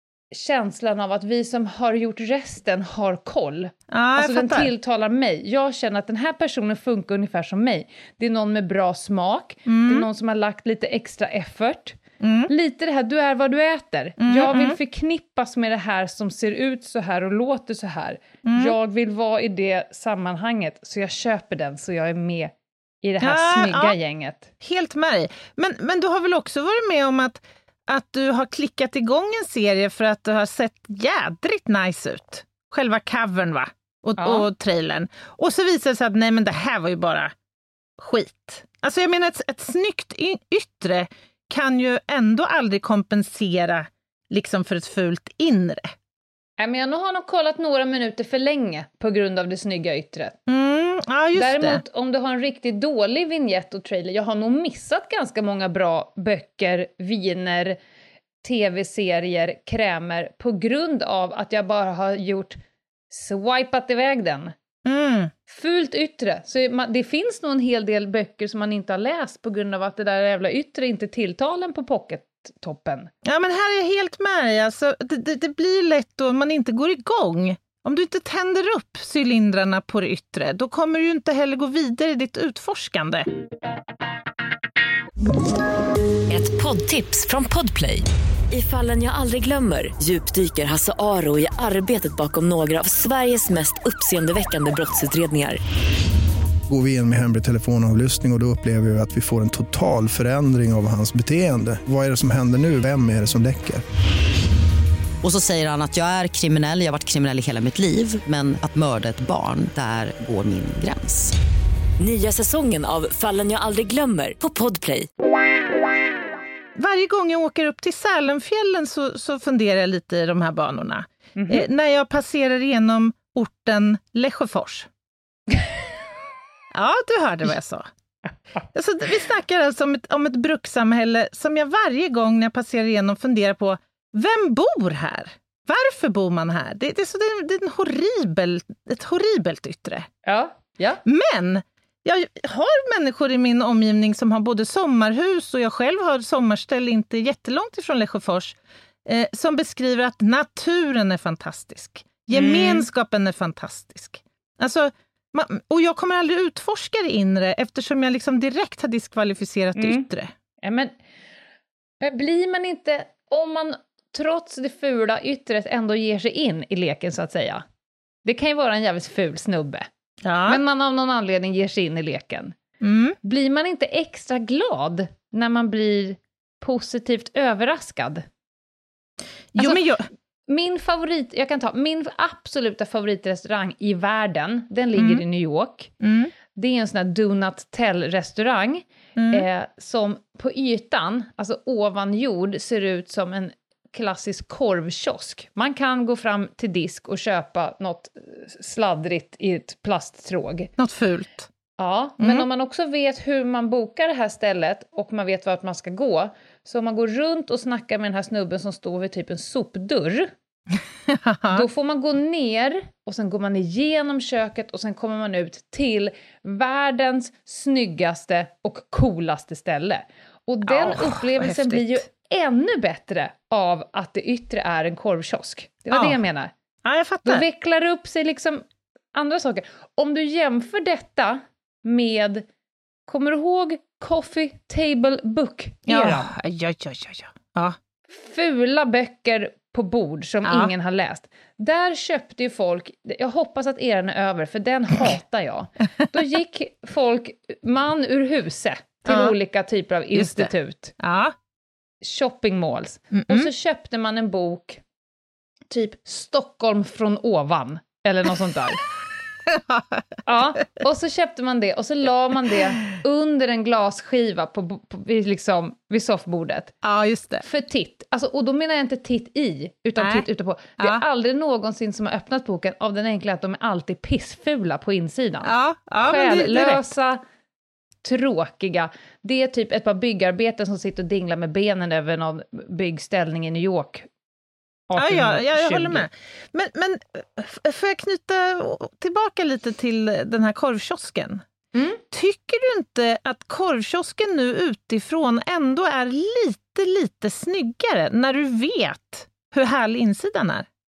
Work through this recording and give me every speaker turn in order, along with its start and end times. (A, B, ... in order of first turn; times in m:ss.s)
0:00.3-0:12.0 A
0:03.9-0:04.7 B
0:09.7-0:10.1 B
0:12.2-0:12.5 B
0:12.5-0:24.5 A
0:14.2-0:14.8 B
0:18.5-0:18.8 B
0:23.2-0:24.0 B
0:24.6-0:37.3 B
0:34.2-0:34.5 A
0:38.0-0:45.9 B
0:46.6-0:50.4 A
0:50.5-0:51.8 B
0:51.3-0:57.8 A
0:58.4-1:02.6 A
1:03.1-1:04.5 A
1:04.8-1:05.3 B
1:05.5-1:13.1 A
1:13.2-1:23.2 B
1:26.3-1:35.6 C
1:36.7-1:43.8 D
1:45.2-1:51.3 E
1:52.0-1:55.1 C
1:56.8-2:04.9 B
2:01.4-2:01.6 A
2:06.7-2:07.8 B
2:08.7-2:20.0 B
2:20.2-2:21.0 A
2:21.0-2:40.3 B
2:32.3-2:32.8 A
2:39.8-2:40.0 A
2:40.6-2:40.9 A
2:42.0-2:47.6 A
2:48.2-2:49.9 A
2:50.2-2:50.6 B
2:50.4-2:52.6 A
2:52.8-2:53.2 B
2:53.2-2:58.2 A
2:59.5-3:00.0 B
2:59.6-2:59.8 A
3:00.5-3:05.9 A
3:05.0-3:05.2 B
3:06.0-3:06.3 B
3:06.5-3:20.7 A
3:09.2-3:09.4 B
3:20.8-3:21.5 B
3:21.8-3:30.3 A
3:22.2-3:22.4 B
3:31.1-3:31.6 B
3:31.5-3:46.5 A
3:40.6-3:42.0 B
3:45.9-3:46.2 B
3:46.8-3:47.4 B
3:47.2-3:52.4 A
3:53.1-3:56.3 A
3:55.9-3:57.7 B
3:58.1-4:10.9 A
4:00.4-4:00.7 B
4:09.1-4:09.3 B
4:10.1-4:11.3 B
4:12.0-4:14.8 A
4:13.2-4:13.5 B
4:15.7-4:18.8 A
4:19.5-4:20.0 B
4:20.2-4:26.7 A
4:26.8-4:27.4 B
4:27.4-4:35.5 A
4:30.0-4:30.2 B
4:30.8-4:31.0 B
4:35.4-4:36.9 B
4:36.0-4:37.2 A
4:38.0-4:44.0 A
4:44.9-4:46.1 A
4:45.0-4:51.4 B
4:52.1-5:00.6 B